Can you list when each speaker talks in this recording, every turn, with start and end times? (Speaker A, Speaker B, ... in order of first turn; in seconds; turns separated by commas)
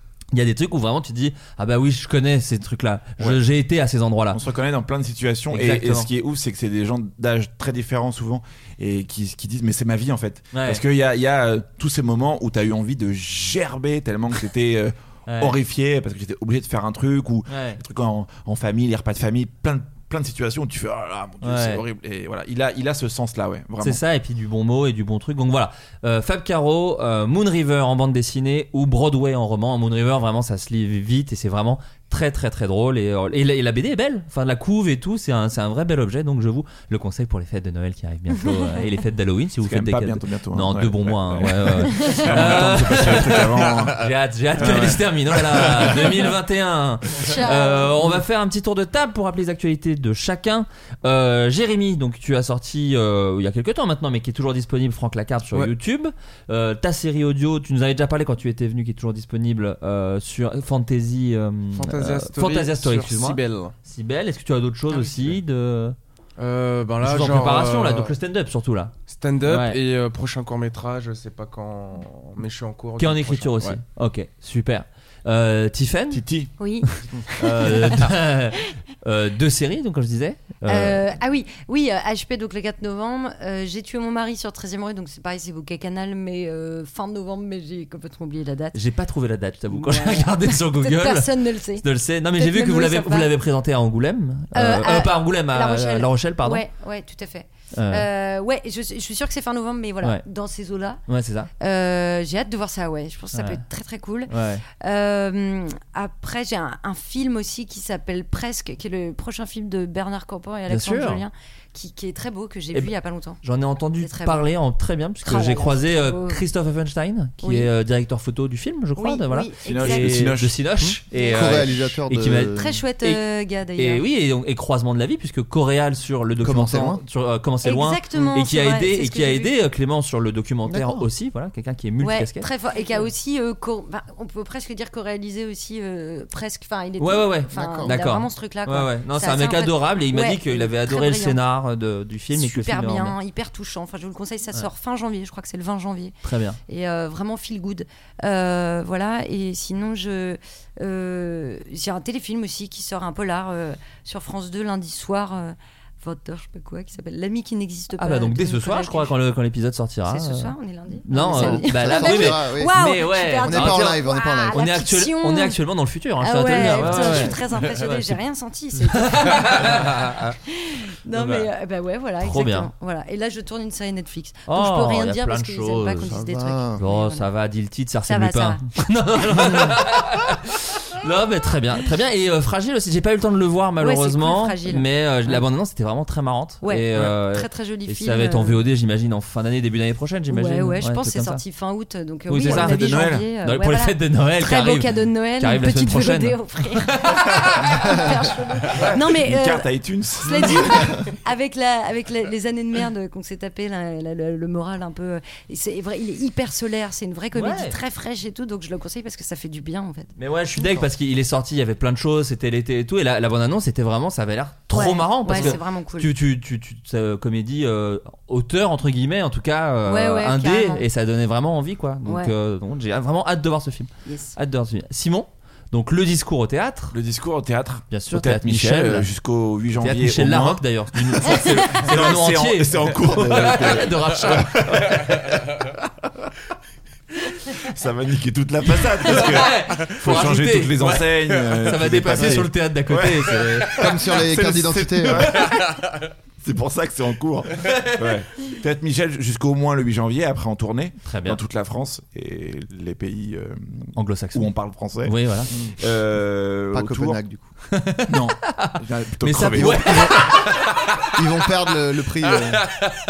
Speaker A: 0.3-4.4, Speaker B: 4.3-24.0, Speaker A: 5.5-6.1, Speaker A: 10.5-10.8, Speaker A: 15.3-15.5, Speaker A: 17.5-17.8, Speaker A: 21.4-21.8, Speaker A: 23.8-66.0, Speaker B: 39.6-44.0, Speaker C: 42.0-42.2, Speaker B: 44.6-46.3, Speaker C: 47.2-47.9, Speaker D: 61.7-63.7, Speaker D: 64.9-65.4, Speaker D: 66.4-68.2, Speaker A: 67.0-68.9, Speaker D: 69.1-73.8, Speaker A: 69.5-69.8, Speaker A: 73.0-76.2, Speaker B: 76.1-76.5, Speaker C: 76.6-78.0, Speaker A: 77.0-81.0, Speaker C: 80.7-88.8, Speaker A: 88.7-96.6, Speaker C: 89.7-91.8, Speaker C: 92.3-93.3, Speaker C: 94.5-101.0, Speaker A: 97.7-98.0, Speaker A: 101.1-101.5, Speaker C: 101.6-113.4, Speaker A: 103.3-103.6, Speaker A: 104.3-104.6, Speaker A: 110.7-111.2, Speaker A: 112.7-123.2, Speaker C: 114.0-114.5, Speaker C: 115.2-116.4, Speaker C: 117.4-117.7, Speaker C: 119.0-120.2, Speaker B: 119.6-120.7, Speaker E: 120.8-122.8, Speaker C: 121.1-121.7, Speaker C: 122.5-124.0, Speaker A: 123.8-132.5, Speaker E: 126.4-127.0, Speaker C: 127.6-129.6, Speaker E: 130.7-131.1, Speaker C: 132.0-141.4, Speaker A: 137.0-143.2, Speaker E: 137.5-137.9, Speaker C: 142.3-146.2, Speaker A: 146.2-146.6, Speaker C: 146.7-159.2, Speaker A: 158.0-164.0, Speaker C: 160.1-165.6, Speaker E: 161.1-162.7, Speaker E: 163.4-164.6, Speaker A: 164.5-168.1, Speaker C: 166.2-169.8, Speaker A: 168.8-170.0, Speaker C: 170.5-177.3, Speaker A: 172.2-172.7, Speaker A: 174.5-176.2, Speaker E: 176.0-176.8, Speaker A: 176.8-191.4, Speaker C: 178.1-178.6, Speaker C: 183.8-185.4, Speaker C: 186.6-188.6, Speaker C: 190.3-199.7, Speaker A: 192.3-198.1, Speaker B: 192.4-193.2, Speaker B: 198.7-200.9, Speaker C: 200.2-210.1, Speaker A: 207.3-207.8, Speaker A: 210.2-227.0, Speaker C: 214.7-216.1, Speaker C: 219.8-220.8, Speaker C: 222.1-222.3, Speaker C: 224.0-224.3, Speaker B: 226.9-235.4, Speaker A: 227.9-229.1, Speaker A: 229.8-235.3, Speaker B: 237.6-245.7, Speaker A: 239.0-243.8, Speaker E: 243.8-245.4, Speaker B: 246.4-257.2, Speaker A: 251.0-251.4, Speaker A: 253.9-255.5, Speaker E: 256.7-257.4, Speaker A: 257.7-260.5, Speaker B: 258.1-260.5, Speaker E: 259.5-259.9, Speaker E: 261.1-262.6